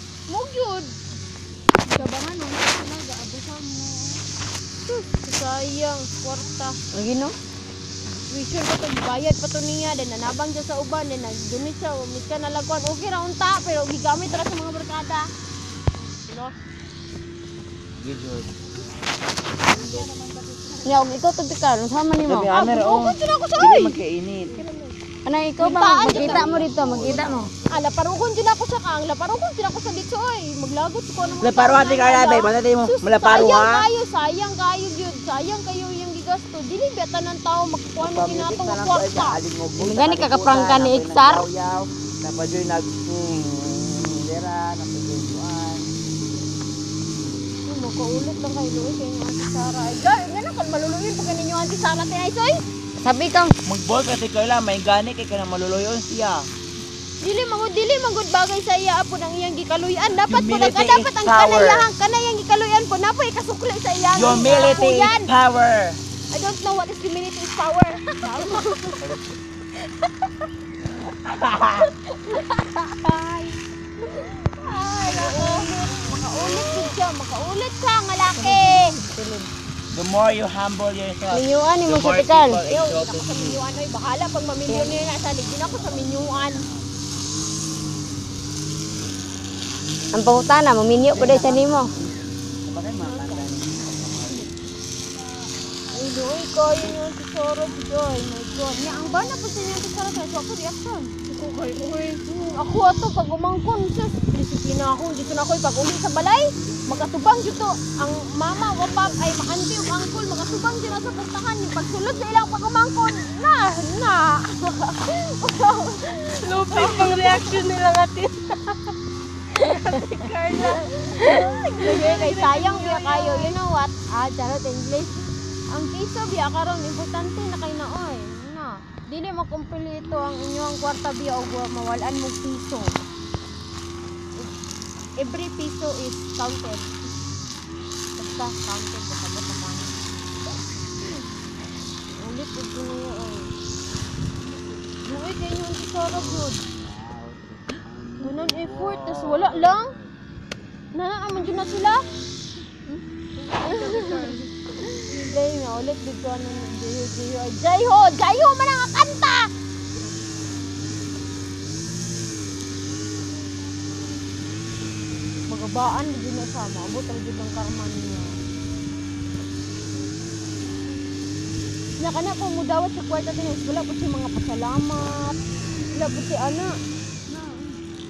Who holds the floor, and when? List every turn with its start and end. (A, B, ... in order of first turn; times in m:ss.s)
0:00.3-0:00.9 A
0:01.8-0:04.2 B
0:04.9-0:06.8 A
0:06.9-0:07.3 C
0:08.3-0:15.3 A
0:16.3-0:16.5 A
0:18.0-0:18.5 D
0:19.8-0:20.8 B
0:20.8-0:22.6 C
0:22.2-0:24.6 D
0:22.5-0:24.0 A
0:24.6-0:24.9 B
0:25.2-0:27.5 C
0:25.6-0:26.6 A
0:26.1-0:27.5 D
0:27.7-0:39.4 A
0:31.4-0:33.9 D
0:38.0-0:45.9 D
0:39.8-0:41.5 C
0:47.6-0:52.6 A
0:53.0-0:53.5 C
0:53.6-0:56.5 D
0:57.2-1:05.3 A
1:00.2-1:01.9 D
1:04.1-1:06.0 D
1:06.3-1:09.0 A
1:09.0-1:09.3 D
1:11.3-1:11.8 D
1:12.2-1:13.6 A
1:14.2-1:19.0 A
1:15.1-1:15.6 B
1:18.3-1:19.5 C
1:19.9-1:23.6 D
1:21.3-1:22.4 C
1:22.2-1:26.6 A
1:24.7-1:25.1 C
1:25.6-1:26.8 D
1:30.1-1:31.9 C
1:31.1-1:32.0 D
1:32.6-1:34.5 D
1:33.0-1:33.5 A
1:35.9-1:41.2 A
1:41.3-1:42.2 B
1:42.2-1:57.7 A
1:56.3-1:58.5 B
1:59.6-2:03.6 B
2:00.5-2:13.0 A
2:15.2-2:16.9 A
2:18.2-2:19.9 A
2:22.1-2:23.5 A
2:25.0-2:26.6 A
2:26.1-2:29.9 D
2:28.2-2:29.9 A
2:30.9-2:32.0 A
2:32.9-2:34.5 B
2:33.6-2:39.5 A
2:35.1-2:35.4 B
2:45.5-2:48.4 A
2:52.0-2:55.3 A
2:55.9-2:56.7 A
2:57.3-2:57.8 B